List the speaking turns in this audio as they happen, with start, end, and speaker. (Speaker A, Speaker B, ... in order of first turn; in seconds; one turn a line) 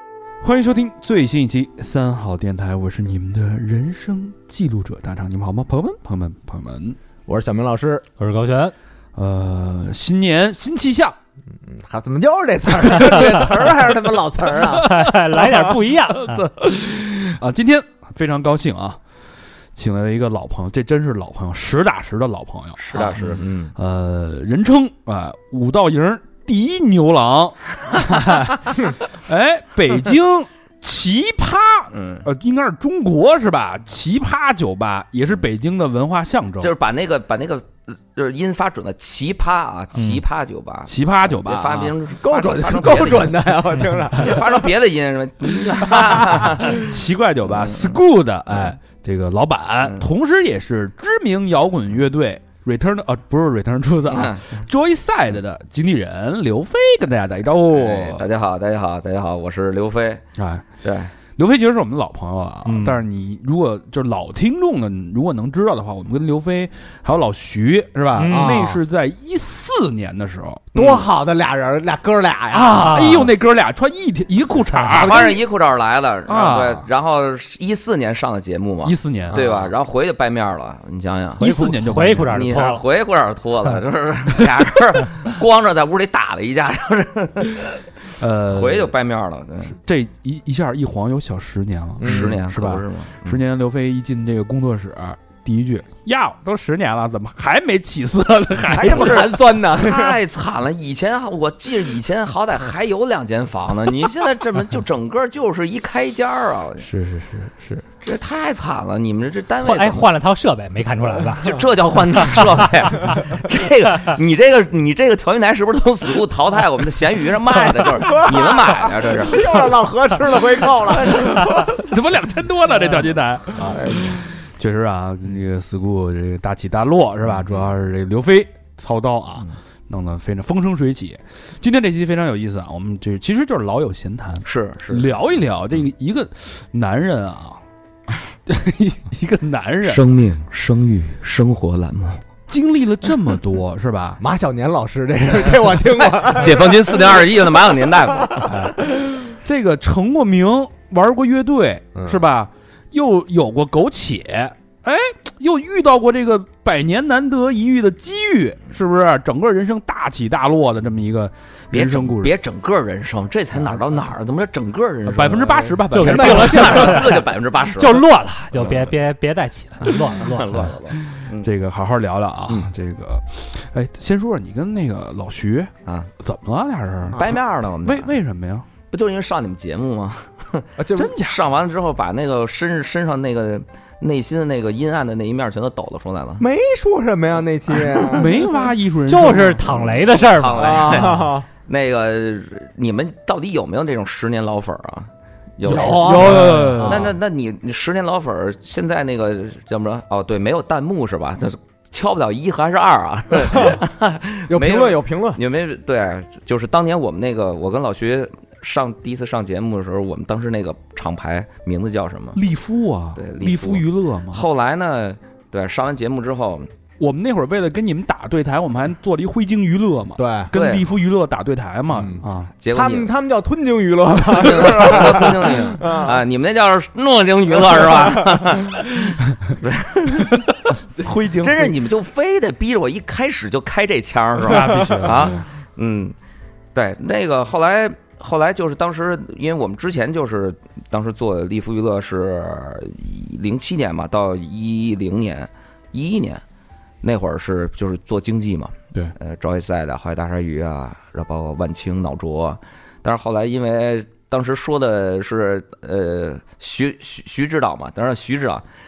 Speaker A: 0.4-7.0
Speaker B: 7.3-8.1
Speaker C: 8.2-8.7
Speaker A: 9.2-11.2
Speaker B: 11.6-14.9
Speaker C: 14.8-16.5
Speaker A: 14.8-19.0
Speaker A: 19.7-36.7
Speaker D: 22.8-23.7
Speaker D: 31.9-32.3
Speaker D: 36.6-43.5
Speaker A: 40.9-42.0
Speaker B: 42.2-44.7
Speaker D: 44.1-46.9
Speaker A: 46.4-58.2
Speaker D: 47.6-48.0
Speaker D: 54.1-54.7
Speaker D: 57.7-60.2
Speaker A: 60.4-60.7
Speaker D: 60.8-61.1
Speaker A: 61.4-70.7
Speaker C: 62.6-63.0
Speaker C: 68.2-68.7
Speaker B: 68.3-68.8
Speaker D: 70.7-71.1
Speaker B: 70.7-73.2
Speaker A: 72.5-75.3
Speaker C: 72.7-73.3
Speaker D: 74.9-81.7
Speaker B: 75.0-75.4
Speaker A: 76.3-76.9
Speaker A: 78.8-79.4
Speaker B: 79.3-79.7
Speaker A: 81.4-82.5
Speaker C: 81.4-82.9
Speaker D: 82.3-87.9
Speaker A: 88.2-88.9
Speaker D: 88.5-89.8
Speaker A: 89.7-99.5
Speaker B: 92.0-92.3
Speaker D: 92.0-93.4
Speaker B: 98.7-100.2
Speaker D: 98.8-106.8
Speaker A: 106.8-107.8
Speaker D: 108.0-110.0
Speaker C: 109.6-113.0
Speaker D: 111.4-119.6
Speaker B: 118.0-121.7
Speaker A: 121.1-137.6
Speaker D: 134.4-135.1
Speaker A: 138.5-140.1
Speaker D: 139.8-142.2
Speaker A: 142.5-144.2
Speaker B: 144.2-147.3
Speaker D: 145.9-148.6
Speaker A: 148.5-162.4
Speaker B: 152.0-152.2
Speaker D: 161.7-168.0
Speaker A: 163.5-164.0
Speaker A: 165.1-167.0
Speaker C: 165.9-170.7
Speaker B: 165.9-167.0
Speaker D: 168.5-168.9
Speaker D: 169.8-171.5
Speaker A: 170.5-178.7
Speaker D: 177.1-178.1
Speaker D: 178.9-186.4
Speaker B: 180.8-181.2
Speaker A: 180.9-181.4
Speaker B: 186.4-188.5
Speaker A: 188.0-189.9
Speaker C: 189.1-191.2
Speaker D: 189.7-212.4
Speaker B: 190.6-191.5
Speaker A: 195.6-197.2
Speaker B: 195.6-197.1
Speaker B: 204.5-205.4
Speaker A: 212.3-214.4
Speaker D: 213.2-216.7
Speaker A: 217.0-222.5
Speaker B: 220.2-220.5
Speaker D: 220.5-220.9
Speaker B: 221.9-222.2
Speaker D: 222.6-223.1
Speaker B: 222.7-226.2
Speaker D: 224.3-230.8
Speaker A: 230.9-231.8
Speaker D: 231.4-236.2
Speaker A: 234.4-235.5
Speaker D: 236.7-246.4
Speaker D: 247.0-258.6